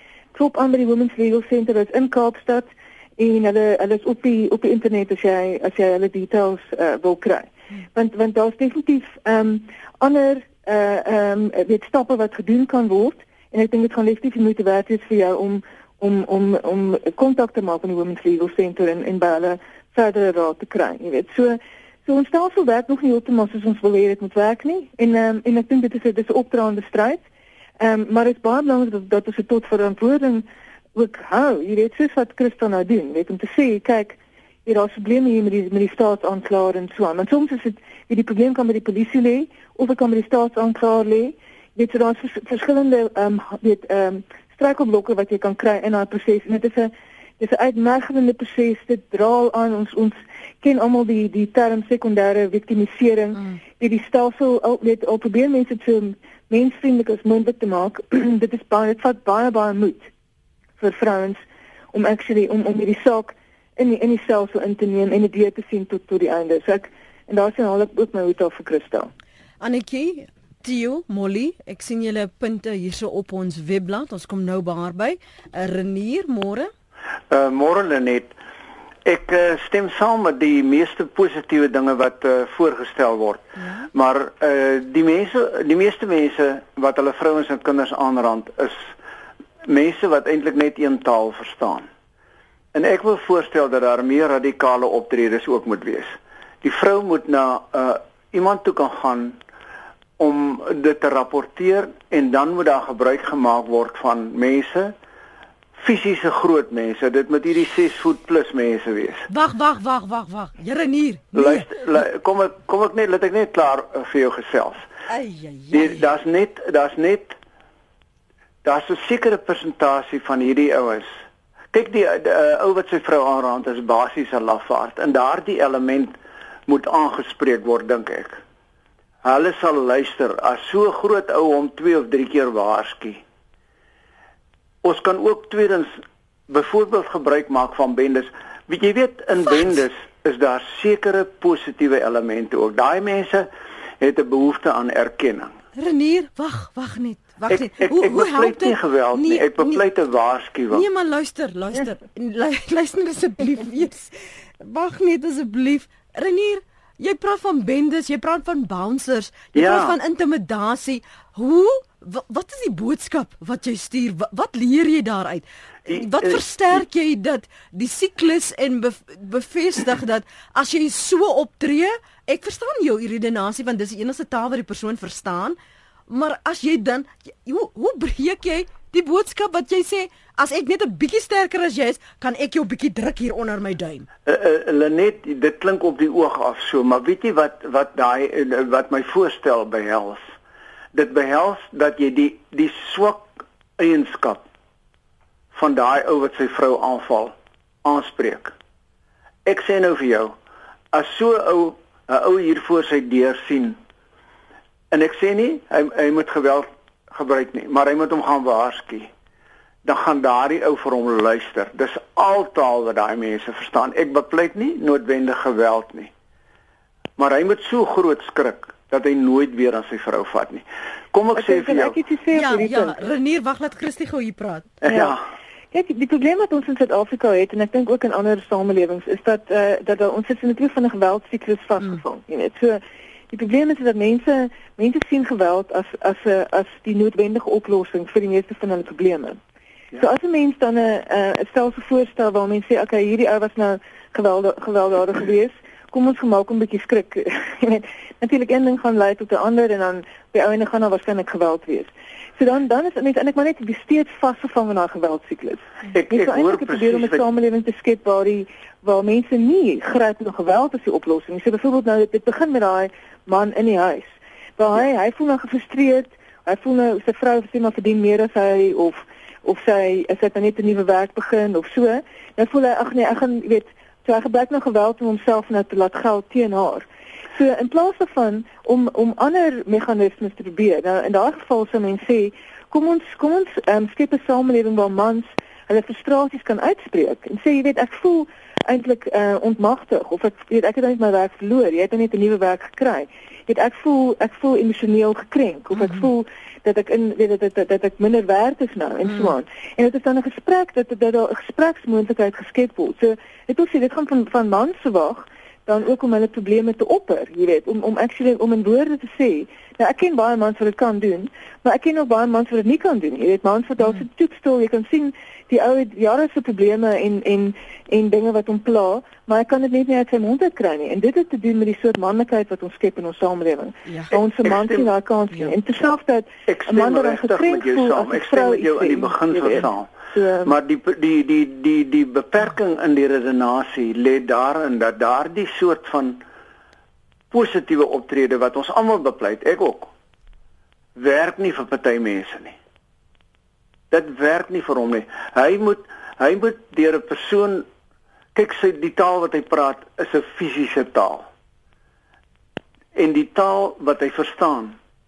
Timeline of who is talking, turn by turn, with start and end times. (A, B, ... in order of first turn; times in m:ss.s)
0:00.3-0:27.2 A
0:27.8-1:00.1 A
1:00.8-1:01.4 A
1:01.9-1:09.1 A
1:09.6-1:16.7 B
1:17.3-1:18.3 C
1:19.0-1:28.9 C
1:23.6-1:23.8 B
1:29.7-1:31.9 C
1:32.7-1:39.4 C
1:40.2-1:44.9 C
1:45.8-1:49.2 C
1:49.3-1:51.7 B
1:51.3-1:54.8 C
1:55.1-1:56.0 B
1:55.7-1:57.4 C
1:58.6-2:01.1 C
2:01.7-2:06.2 C
2:06.7-2:08.4 C
2:09.2-2:13.2 C
2:14.8-2:16.0 C
2:16.5-2:23.5 C
2:24.0-2:25.5 C
2:25.8-2:29.8 B
2:27.5-2:30.8 C
2:30.7-2:55.6 B
2:39.5-2:40.0 C
2:45.9-2:46.4 C
2:56.1-3:04.1 B
3:04.2-3:10.3 C
3:10.9-3:14.5 C
3:15.5-3:18.5 C
3:19.4-3:20.4 C
3:20.9-3:23.8 C
3:24.9-3:29.1 C
3:29.8-3:36.1 C
3:37.2-3:42.0 C
3:41.4-3:43.0 A
3:42.3-3:44.8 B
3:44.8-3:45.2 C
3:44.9-3:45.1 A
3:45.7-3:59.4 A
4:00.0-5:30.6 A
4:15.9-4:17.2 C
5:23.9-5:24.1 B
5:24.4-5:24.9 C
5:26.5-5:29.9 C
5:30.4-5:36.2 C
5:37.3-5:39.9 C
5:41.0-5:42.6 C
5:43.9-5:47.7 C
5:48.3-5:51.3 C
5:52.9-5:54.8 C